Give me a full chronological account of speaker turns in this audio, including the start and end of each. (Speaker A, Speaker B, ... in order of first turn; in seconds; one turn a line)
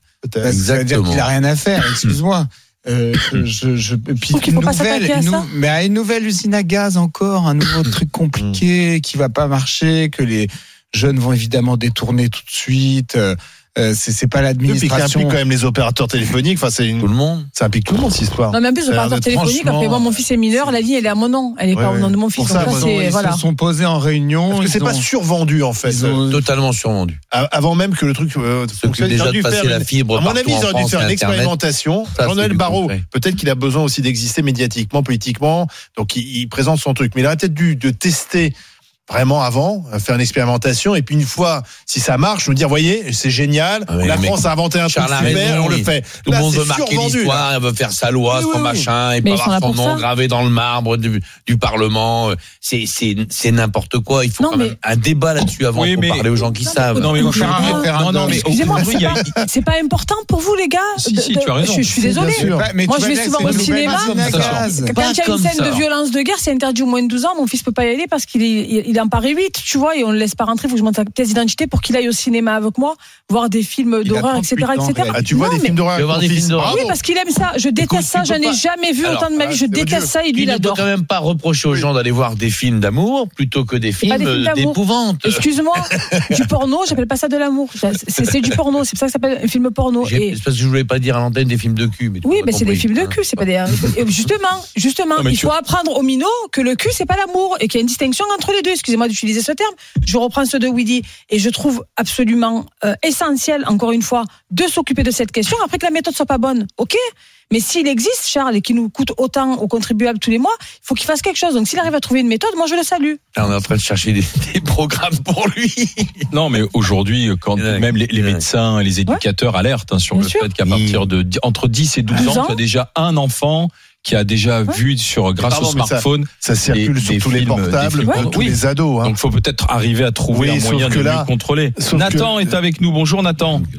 Speaker A: 0.2-0.6
Speaker B: 0.4-15.4
Speaker C: 0.5-2.2
Speaker D: 4.3-5.5
Speaker A: 14.7-19.4
Speaker C: 17.0-17.5
Speaker D: 18.5-23.4
Speaker C: 19.3-20.2
Speaker A: 21.7-22.9
Speaker B: 22.4-25.1
Speaker A: 24.5-26.2
Speaker B: 25.8-26.5
Speaker C: 26.3-27.2
Speaker A: 27.3-38.5
Speaker C: 28.8-31.6
Speaker C: 32.1-33.0
Speaker A: 39.1-47.5
Speaker C: 43.9-57.3
Speaker A: 48.3-48.9
Speaker D: 49.2-50.0
Speaker D: 54.4-54.8
Speaker E: 55.7-56.3
Speaker D: 56.6-75.8
Speaker E: 57.0-59.2
Speaker B: 57.2-59.0
Speaker E: 61.0-62.0
Speaker B: 61.9-65.0
Speaker A: 62.3-62.7
Speaker C: 63.4-65.8
Speaker B: 74.0-75.3
Speaker A: 75.1-77.0
Speaker C: 76.0-77.0
Speaker D: 76.6-80.8
Speaker C: 77.8-78.6
Speaker A: 79.1-80.1
Speaker C: 80.3-86.4
Speaker D: 84.0-90.4
Speaker C: 90.0-93.9
Speaker D: 92.2-107.0
Speaker E: 95.2-95.5
Speaker D: 107.5-113.2
Speaker C: 113.3-116.3
Speaker E: 116.3-133.6
Speaker C: 117.6-118.5
Speaker D: 120.1-120.5
Speaker C: 120.7-121.1
Speaker D: 122.1-122.6
Speaker A: 125.4-129.2
Speaker A: 130.3-132.6